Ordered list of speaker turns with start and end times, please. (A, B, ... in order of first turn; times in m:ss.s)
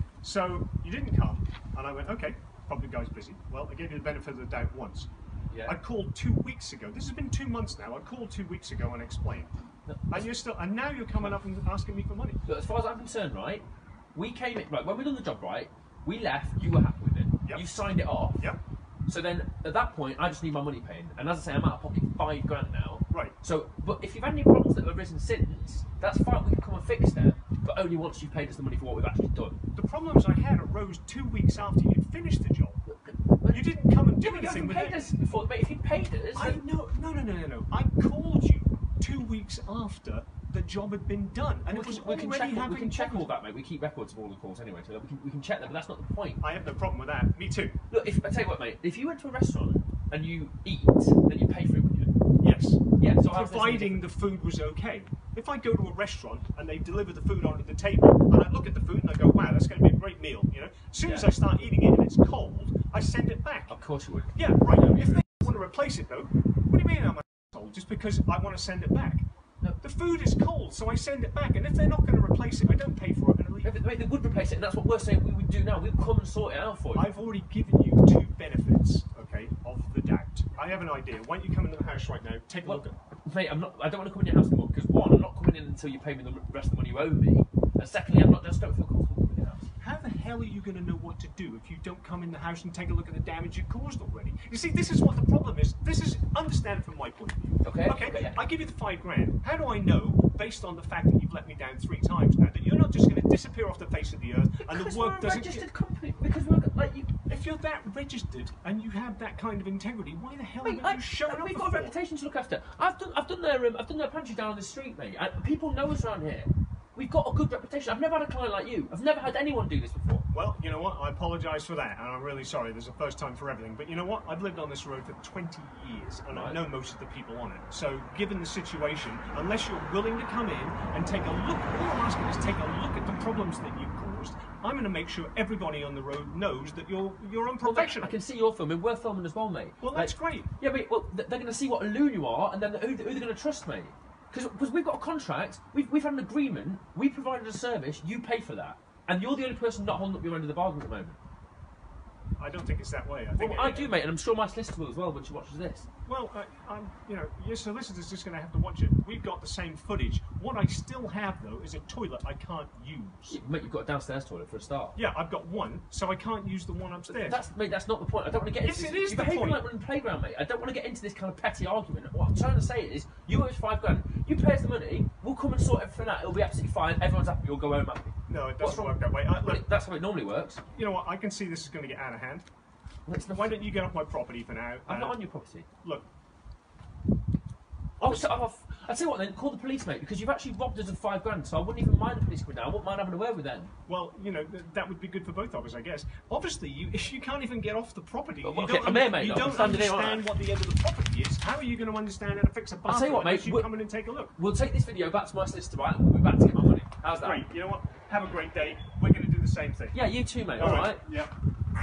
0:00.2-0:05.1 A
0:05.5-0:05.8 B
0:05.6-0:09.5 A
0:09.9-0:10.3 B
0:10.1-0:12.4 A
0:12.5-0:18.5 B
0:19.1-0:29.6 B
0:23.1-0:23.4 A
0:29.7-0:32.8 A
0:32.9-0:36.6 B
0:33.5-0:35.0 A
0:36.3-0:43.4 A
0:41.7-0:46.4 B
0:46.4-0:47.8 A
0:47.9-0:52.1 B
0:52.4-1:03.8 A
0:53.0-0:54.1 B
1:01.0-1:01.3 B
1:03.7-1:05.7 B
1:04.4-1:09.2 A
1:09.8-1:13.7 A
1:13.6-1:17.1 B
1:16.9-1:23.0 A
1:22.6-1:29.7 B
1:29.8-1:45.7 A
1:37.6-1:38.4 B
1:44.6-1:47.2 B
1:47.3-1:52.0 A
1:50.6-2:00.2 B
2:00.3-2:18.2 A
2:06.3-2:06.6 B
2:17.6-2:31.2 B
2:19.8-2:20.5 A
2:32.4-2:34.0 A
2:33.4-2:35.9 B
2:36.1-2:43.4 A
2:43.3-2:45.0 B
2:45.0-2:47.4 A
2:47.1-3:00.6 B
2:48.6-2:49.7 A
2:58.3-2:59.6 A
3:00.7-3:02.5 A
3:03.1-3:03.6 B
3:03.3-3:05.2 A
3:04.9-3:05.7 B
3:08.0-3:08.4 A
3:08.0-3:13.7 B
3:13.9-3:24.4 A
3:18.4-3:20.3 B
3:22.9-3:23.7 B
3:24.4-3:27.5 B
3:27.2-3:30.0 A
3:29.9-3:31.0 B
3:30.6-3:31.3 A